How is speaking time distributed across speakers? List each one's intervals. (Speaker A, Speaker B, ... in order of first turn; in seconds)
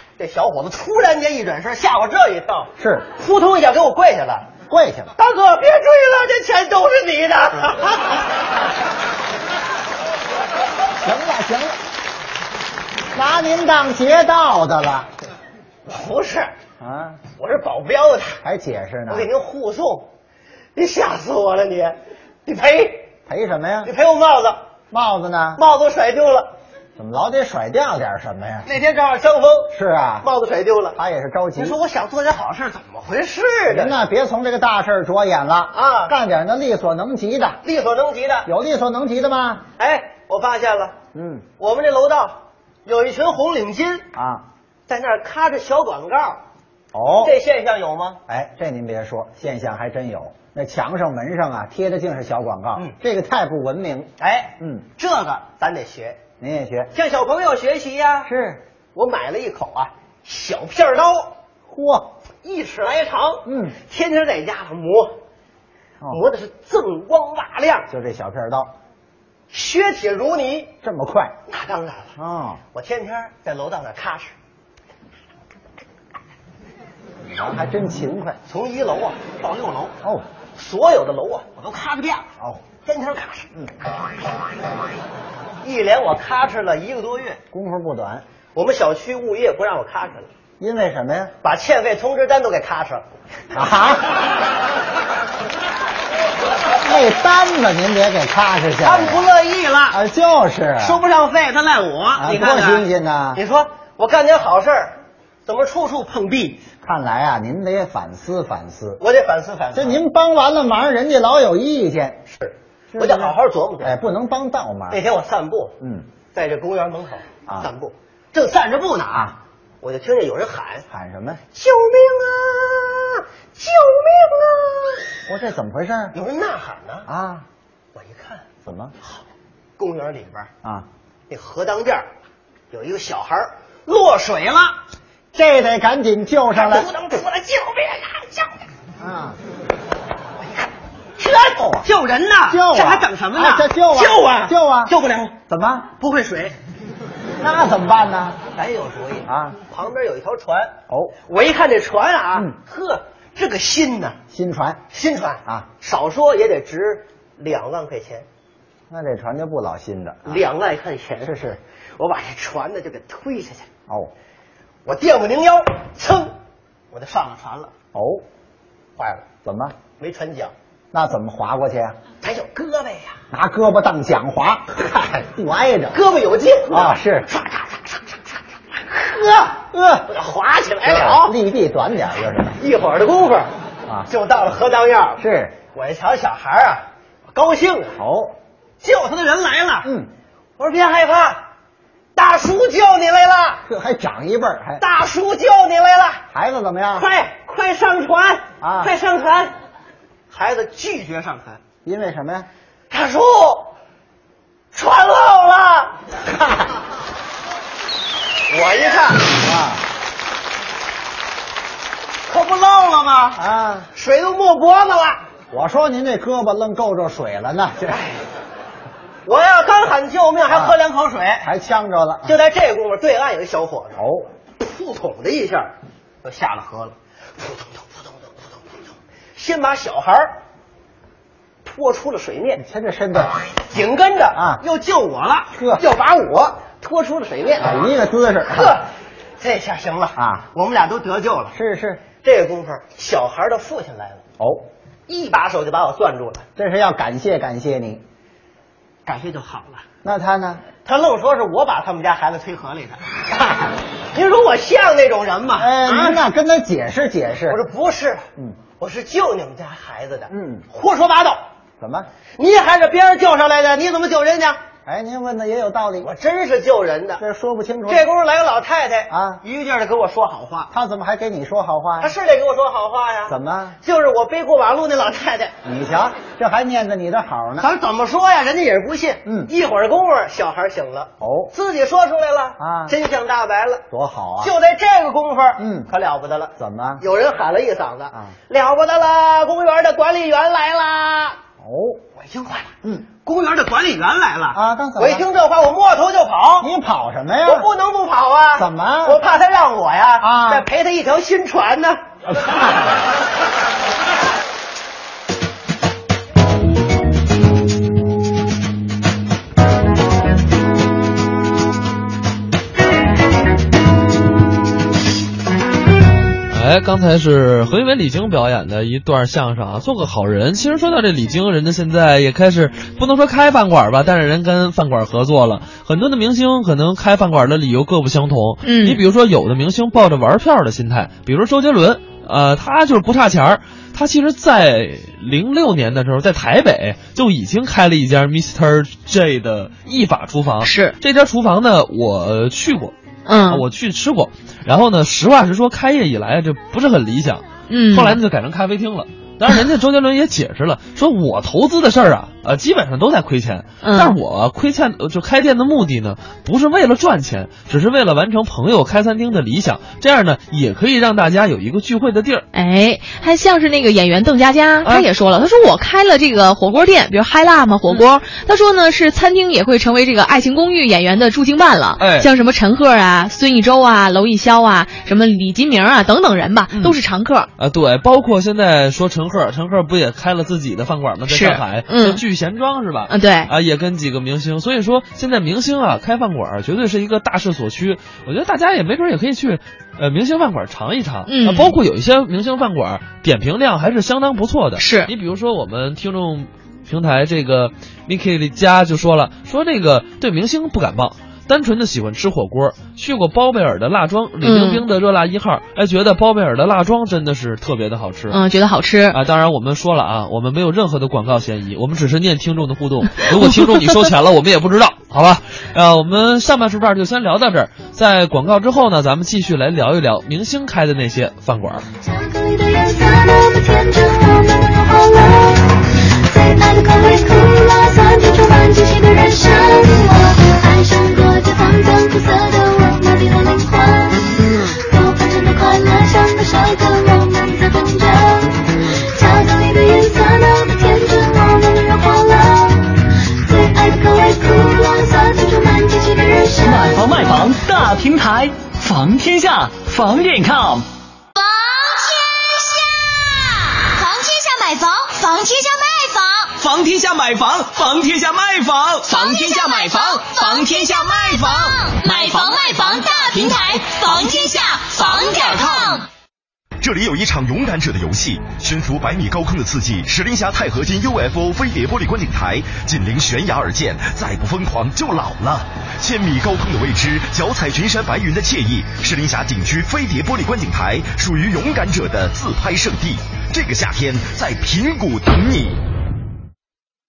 Speaker A: 0.2-4.5, 5.2-8.2, 15.8-16.5, 17.3-18.4, 19.1-20.1, 20.7-23.1, 23.8-24.6, 25.6-26.5, 28.6-31.0, 31.6-33.9, 35.7-36.1, 37.6-38.5, 39.8-41.0, 41.6-44.0, 44.9-46.4, 47.2-48.2, 54.2-56.2, 56.9-58.3, 58.9-61.3, 62.4-65.1, 66.1-67.9, 69.5-70.7, 71.5-72.1, 72.7-74.3, 78.5-79.9, 80.5-83.5, 85.6-87.4, 88.5-90.3, 91.4-93.0, 98.8-100.0, 100.8-106.6, 109.0-110.0, 112.3-113.9, 114.9-115.8, 116.3-120.8, 121.5-125.1, 126.1-127.0, 127.9-128.4, 129.8-130.5, 131.3-132.1, 132.7-134.8, 136.6-138.6, 141.2-145.4, 146.0-146.5, 148.5-150.7, 151.3-154.2, 154.9-158.2, 160.2-161.4, 162.0-163.7, 164.8-166.3, 166.9-167.7, 169.0-169.3, 170.0-170.5, 172.2-173.2, 175.9-178.2, 180.1-181.3, 182.6-183.5, 184.1-185.2, 185.7-188.0, 188.8-189.9, 190.6-191.4, 192.2-193.6, 194.8-196.2, 196.9-199.5, 200.3-201.6, 202.9-203.7, 204.7-205.9, 208.5-209.3, 212.3-213.4, 213.9-215.2, 219.2-221.5, 222.2-224.0, 224.6-225.7, 226.2-230.3, 231.6-232.6, 233.7-237.7, 238.5-238.8, 239.4-241.6, 242.2-244.2, 245.1-246.4, 249.1-249.8, 250.8-253.2, 254.1-256.2, 257.5-258.2, 258.8-261.4, 262.4-264.6, 266.0-267.2, 267.9-270.7, 272.0-275.5, 277.6-283.8, 284.4-291.4, 292.1-296.7, 297.4-302.0
Speaker B: 2.8-3.1, 4.7-5.1, 11.0-11.8, 13.1-15.1, 16.8-17.2, 18.4-19.3, 23.3-23.9, 24.9-25.6, 27.0-28.7, 29.7-30.3, 30.9-31.8, 33.7-37.6, 38.5-39.6, 41.1-41.5, 44.1-44.5, 46.9-47.3, 48.3-54.8, 56.4-56.9, 58.2-58.6, 61.7-62.1, 63.4-63.8, 67.9-68.7, 70.8-71.3, 72.2-72.6, 77.3-78.4, 87.5-88.2, 90.6-91.3, 93.5-94.1, 96.8-99.2, 99.9-101.0, 102.2-103.4, 106.8-109.0, 109.7-112.2, 112.9-115.0, 115.8-116.1, 120.9-121.4, 125.3-126.1, 127.0-127.5, 128.6-128.9, 135.3-136.9, 139.0-139.4, 141.6-141.9, 142.5-144.9, 145.5-145.9, 147.4-148.4, 149.2-149.6, 150.9-151.1, 154.3-154.8, 158.9-160.4, 161.2-161.6, 167.9-168.2, 169.4-169.7, 170.9-172.0, 173.3-176.0, 176.7-177.3, 178.9-180.1, 180.8-182.6, 185.2-185.6, 187.9-188.3, 189.8-190.1, 193.7-194.8, 196.3-197.1, 198.6-198.9, 201.8-202.5, 206.3-206.7, 209.3-209.8, 213.4-213.9, 215.5-218.1, 220.5-220.8, 221.4-222.3, 224.0-224.3, 232.6-233.3, 234.3-234.6, 235.5-235.8, 237.6-238.8, 240.2-240.4, 241.5-242.0, 244.4-244.7, 246.6-248.0, 250.0-250.6, 255.6-257.6, 260.3-260.6, 261.8-262.1, 264.9-266.1, 267.2-268.1, 269.1-269.4, 270.7-272.1, 273.2-273.8, 275.6-277.7, 279.2-279.5, 281.2-281.5, 282.6-282.9, 283.9-284.5, 285.6-285.9, 286.6-287.0, 291.6-292.0, 292.8-293.1, 294.5-295.2, 296.6-297.7, 298.6-299.2, 300.2-300.6, 302.3-302.8
Speaker C: 316.5-342.9, 343.4-362.4, 372.0-372.3, 376.7-377.0, 377.6-408.4, 409.1-421.8
Speaker D: 328.6-329.0, 340.6-340.9, 343.2-343.6, 347.7-348.2, 353.8-354.1, 362.5-377.5, 381.3-382.2, 383.1-383.5, 391.2-391.7, 394.8-395.1, 404.4-404.8, 408.3-409.2
Speaker E: 422.0-425.7, 426.3-442.9, 443.4-447.0
Speaker F: 446.6-450.8
Speaker G: 454.0-456.0
Speaker H: 466.8-485.8